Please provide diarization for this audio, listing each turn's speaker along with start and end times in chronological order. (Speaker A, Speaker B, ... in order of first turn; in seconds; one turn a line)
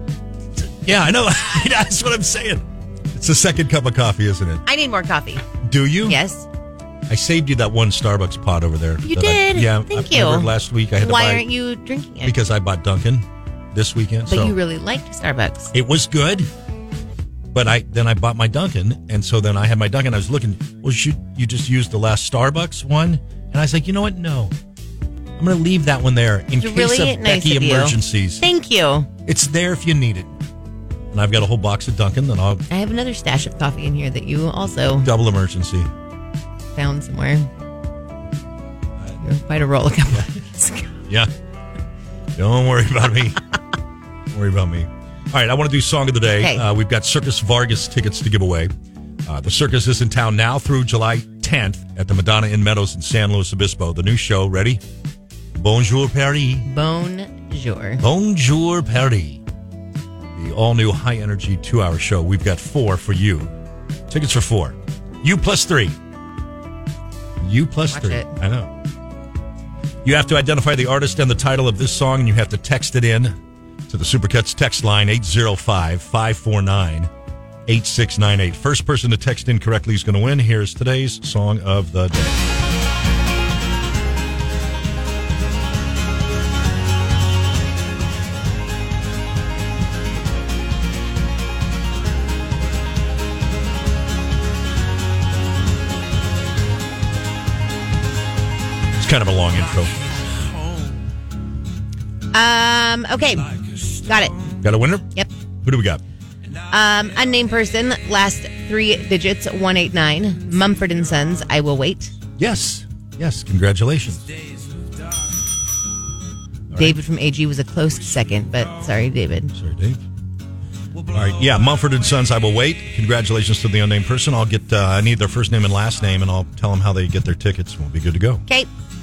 Speaker A: 0.6-4.6
Speaker B: 4.6-5.4
Speaker A: 5.6-6.2
Speaker B: 6.0-6.5
Speaker A: 7.1-11.5
Speaker B: 9.0-12.3
Speaker A: 12.2-14.6
Speaker B: 14.2-15.7
Speaker A: 15.7-16.5
Speaker A: 17.5-24.5
Speaker A: 25.4-28.4
Speaker B: 26.6-29.1
Speaker A: 29.2-30.3
Speaker A: 31.1-32.6
Speaker B: 32.7-35.1
Speaker A: 35.0-35.9
Speaker B: 36.7-37.5
Speaker B: 39.2-40.9
Speaker A: 42.4-43.4
Speaker A: 44.3-48.7
Speaker B: 46.3-46.6
Speaker A: 49.2-54.8
Speaker A: 55.6-56.7
Speaker B: 56.6-58.0
Speaker A: 58.0-59.4
Speaker A: 60.4-63.5
Speaker A: 64.1-66.0
Speaker A: 67.4-68.7
Speaker B: 67.9-68.3
Speaker A: 70.0-73.3
Speaker A: 73.9-77.1
Speaker A: 77.7-82.4
Speaker A: 99.0-99.9
Speaker B: 102.3-104.3
Speaker A: 104.6-105.0
Speaker A: 105.6-106.0
Speaker B: 106.7-112.1
Speaker A: 112.4-114.3
Speaker A: 116.7-117.0
Speaker B: 116.8-119.5
Speaker A: 119.5-120.0
Speaker A: 121.1-128.4